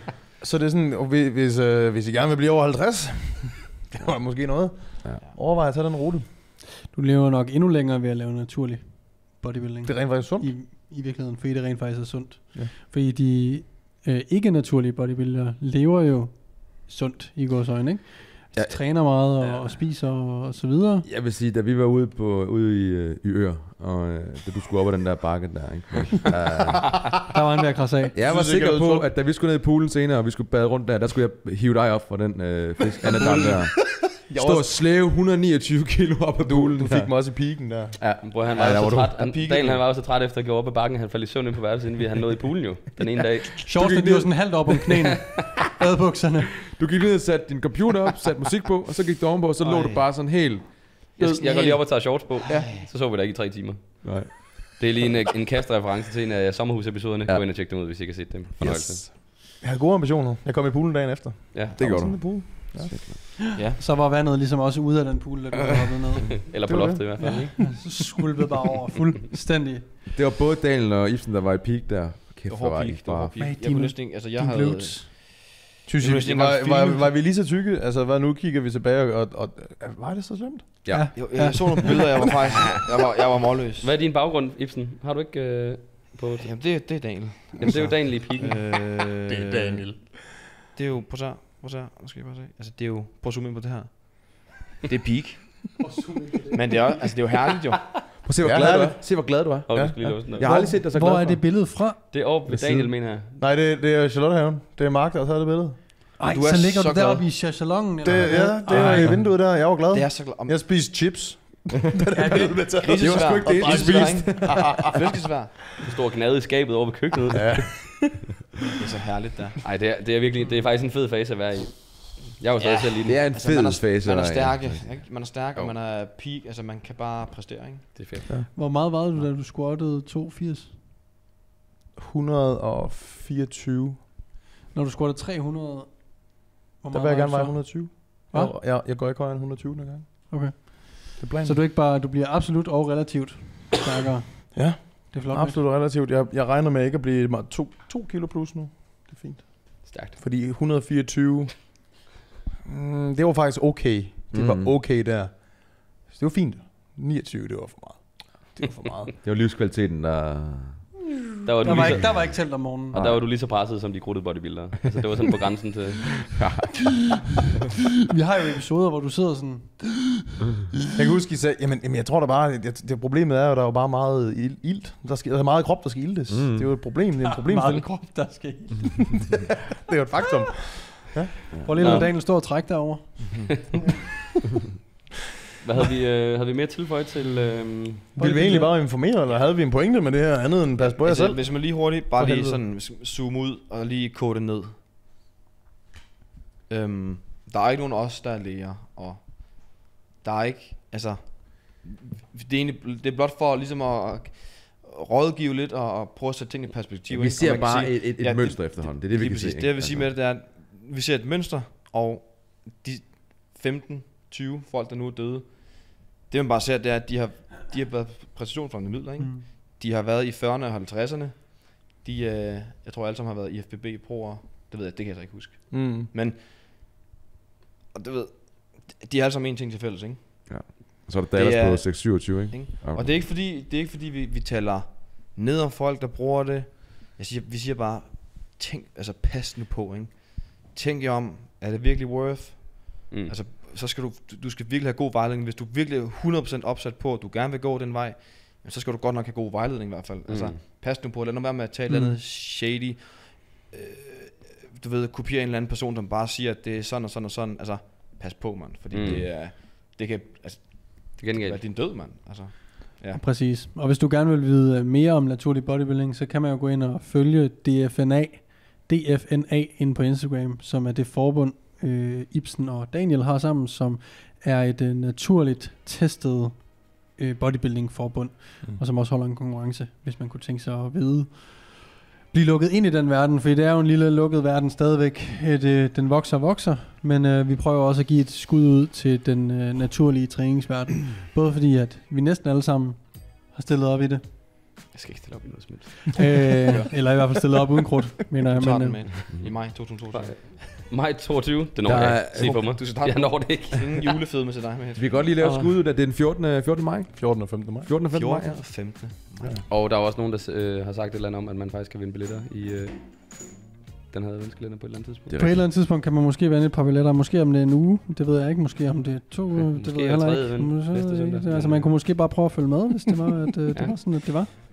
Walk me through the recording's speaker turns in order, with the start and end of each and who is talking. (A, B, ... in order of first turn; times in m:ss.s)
0:00.4-0:06.2 A
0:06.9-0:21.1 B
0:09.8-0:10.5 A
0:18.5-0:19.7 C
0:21.0-0:27.2 C
0:27.3-0:28.2 B
0:28.1-0:39.1 C
0:28.2-0:29.1 A
0:33.2-0:33.5 D
0:34.2-0:34.8 A
0:36.4-0:38.2 A
0:38.2-0:43.7 D
0:38.8-0:39.8 E
0:43.6-0:46.6 B
0:43.7-0:44.7 C
0:46.7-0:51.1 C
0:49.6-0:50.1 E
0:51.2-0:59.0 D
0:51.2-0:52.9 E
0:54.0-0:54.5 C
0:58.6-0:59.1 C
0:58.6-1:03.0 A
1:01.5-1:01.8 D
1:01.8-1:03.2 C
1:03.6-1:06.5 B
1:06.5-1:07.8 D
1:06.6-1:07.5 A
1:07.2-1:09.9 B
1:10.1-1:13.4 C
1:12.4-1:17.0 E
1:13.4-1:15.1 B
1:15.4-1:21.0 A
1:20.8-1:21.5 C
1:20.9-1:22.3 B
1:21.1-1:23.9 E
1:23.8-1:26.9 D
1:26.4-1:29.9 E
1:27.6-1:28.6 D
1:29.4-1:29.9 C
1:30.7-1:35.7 E
1:35.8-1:37.1 B
1:36.5-1:37.9 E
1:38.2-1:41.4 C
1:38.4-1:40.1 A
1:39.6-1:40.5 D
1:40.4-1:42.0 B
1:42.1-1:43.4 D
1:42.6-1:42.9 C
1:43.2-1:45.8 A
1:46.2-1:49.3 B
1:46.3-1:47.2 E
1:48.0-1:55.1 A
1:48.8-1:49.1 C
1:49.9-1:50.7 E
1:52.2-1:52.8 B
1:52.6-1:55.5 E
1:52.9-1:54.8 C
1:55.8-1:58.0 D
1:57.3-1:58.2 A
1:58.8-1:59.6 E
1:59.6-2:03.2 D
2:02.6-2:07.9 E
2:03.0-2:05.0 C
2:07.9-2:08.3 D
2:08.3-2:10.7 B
2:12.0-2:14.0 A
2:14.7-2:18.5 B
2:16.9-2:21.6 A
2:20.3-2:25.7 B
2:24.5-2:32.0 A
2:29.9-2:30.2 D
2:32.6-2:39.1 A
2:34.3-2:34.7 C
2:39.2-2:40.8 C
2:41.4-2:43.0 B
2:41.4-2:42.3 D
2:42.9-2:43.2 C
2:42.9-2:46.3 D
2:46.4-2:47.0 C
2:48.1-2:50.0 B
2:50.9-2:58.3 A
2:56.3-2:57.0 C
2:57.2-2:59.5 B
2:59.3-3:01.4 A
3:01.5-3:04.0 B
3:01.8-3:02.1 D
3:03.2-3:03.7 E
3:05.6-3:08.1 D
3:08.1-3:08.8 B
3:08.2-3:12.6 A
3:11.0-3:14.7 E
3:11.1-3:11.4 D
3:16.7-3:46.5 E
3:27.1-3:30.1 C
3:39.2-3:39.6 B
3:45.7-3:46.1 A
3:47.9-3:50.6 E
3:50.4-3:53.1 C
3:51.3-4:23.2 E
4:10.3-4:10.6 D
4:11.9-4:12.2 B
4:18.9-4:19.3 D
4:19.0-4:19.2 C
4:21.2-4:21.6 D
4:23.1-4:54.2 B
4:54.9-4:55.9 E
4:55.7-4:56.2 D
4:56.1-4:59.2 B
4:56.5-4:56.9 E
4:58.3-5:00.8 E
5:00.1-5:04.1 D
5:01.8-5:02.6 C
5:02.3-5:05.3 E
5:05.0-5:09.1 C
5:05.4-5:05.7 D
5:07.1-5:07.9 A
5:08.1-5:09.6 E
5:09.7-5:13.5 D
5:14.1-5:15.3 D
5:15.3-5:15.6 C
5:15.4-5:24.5 B
5:19.6-5:21.9 D